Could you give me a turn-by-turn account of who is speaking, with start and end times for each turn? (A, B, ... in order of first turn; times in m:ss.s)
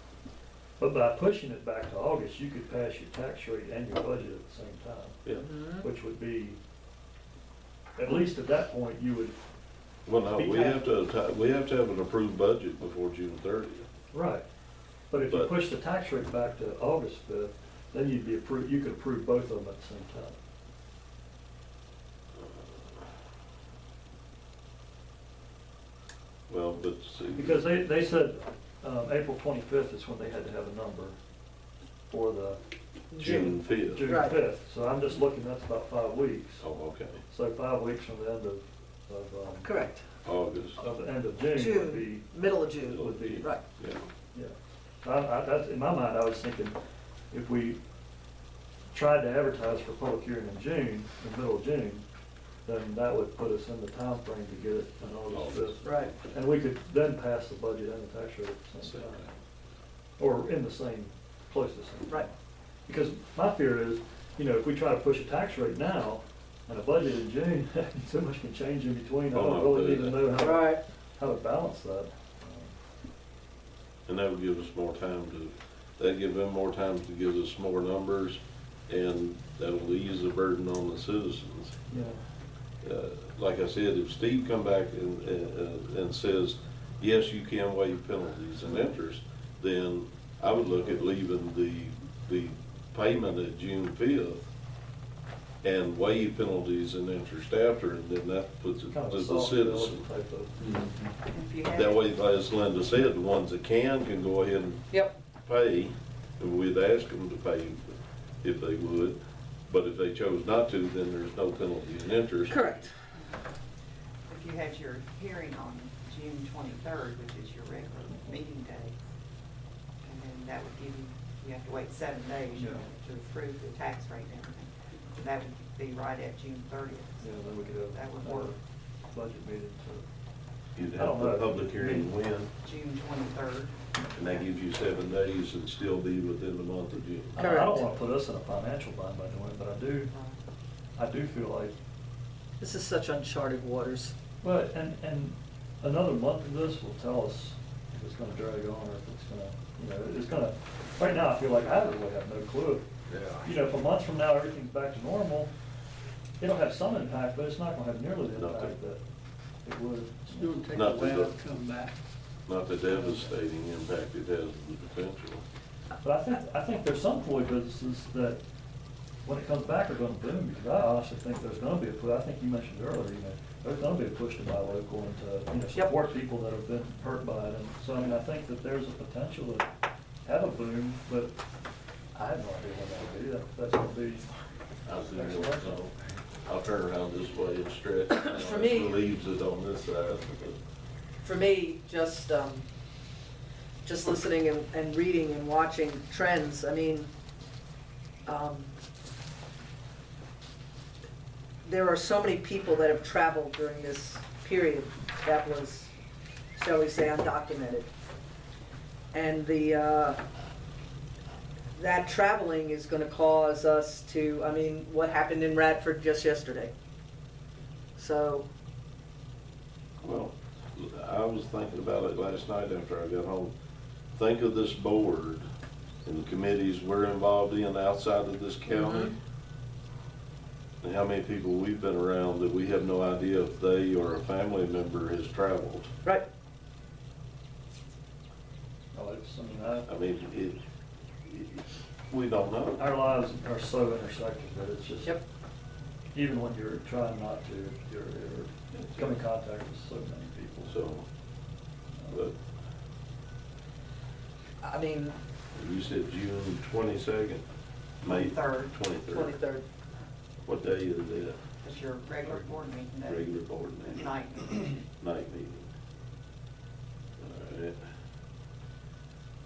0:00.8-0:05.2 A
0:05.4-0:05.8 B
0:05.8-0:06.6 A
0:08.0-0:09.4 A
0:10.0-0:13.9 C
0:10.3-0:10.8 A
0:14.1-0:14.4 A
0:15.1-0:20.4 A
0:22.4-0:22.8 C
0:26.5-0:27.6 C
0:27.4-0:31.2 A
0:32.1-0:32.6 A
0:33.1-0:34.4 B
0:33.2-0:34.0 C
0:33.8-0:36.6 A
0:36.6-0:37.2 C
0:37.3-0:39.7 A
0:39.6-0:40.0 B
0:40.2-0:40.8 C
0:40.8-0:42.3 A
0:41.5-0:43.6 B
0:42.9-0:44.1 C
0:43.0-0:43.4 A
0:44.3-0:46.8 A
0:47.3-0:47.8 A
0:48.9-0:52.0 A
0:52.6-0:59.3 A
0:55.3-0:56.2 C
0:55.8-0:56.1 B
0:58.8-0:59.3 C
1:00.2-1:02.3 A
1:02.8-1:12.8 A
1:09.3-1:10.3 C
1:10.4-1:10.8 B
1:14.1-1:21.8 C
1:21.9-1:22.2 A
1:22.8-1:34.5 C
1:35.6-1:40.0 C
1:38.9-1:40.9 A
1:40.6-1:41.0 D
1:41.3-1:42.0 E
1:41.7-1:44.9 C
1:45.4-1:47.8 C
1:48.4-1:52.8 C
1:52.5-1:52.9 B
1:54.3-1:58.9 E
2:00.0-2:08.6 E
2:02.6-2:02.8 A
2:07.2-2:08.6 A
2:09.1-2:10.0 A
2:10.8-2:12.5 C
2:10.9-2:12.1 A
2:12.6-2:14.4 E
2:14.1-2:17.5 C
2:17.4-2:20.1 A
2:17.4-2:17.9 B
2:20.1-2:20.4 E
2:21.0-2:21.7 A
2:22.6-2:24.1 B
2:24.4-2:32.9 A
2:33.1-2:33.6 D
2:33.4-2:35.5 A
2:36.4-2:39.0 A
2:38.3-2:38.7 C
2:39.6-2:40.6 A
2:40.4-2:41.9 D
2:40.7-2:41.3 C
2:42.5-2:45.4 C
2:42.9-2:43.3 A
2:46.0-2:48.4 A
2:49.2-2:59.7 A
3:00.2-3:01.3 A
3:02.1-3:04.3 A
3:04.8-3:05.9 C
3:05.1-3:05.8 A
3:06.4-3:10.6 C
3:08.1-3:09.0 B
3:11.2-3:12.6 B
3:13.8-3:17.1 B
3:18.2-3:18.7 B
3:21.6-3:25.9 B
3:26.5-3:27.9 B
3:29.1-3:30.2 B
3:31.7-3:36.7 B
3:38.0-3:38.5 B
3:40.0-3:43.5 C
3:44.1-3:45.4 C
3:46.0-3:49.1 C
3:48.7-3:49.1 B
3:50.8-3:55.9 C
3:58.9-3:59.9 A
3:59.8-4:00.6 C
4:01.2-4:02.8 C
4:02.8-4:05.2 A
4:06.1-4:10.8 A
4:10.6-4:11.1 C
4:12.1-4:12.4 C
4:14.6-4:15.2 B
4:15.5-4:17.4 C
4:18.0-4:19.4 C
4:18.0-4:18.9 E
4:19.1-4:19.6 B
4:20.4-4:21.4 C
4:21.6-4:24.8 E
4:23.0-4:24.1 C
4:25.0-4:25.7 C
4:27.2-4:27.8 C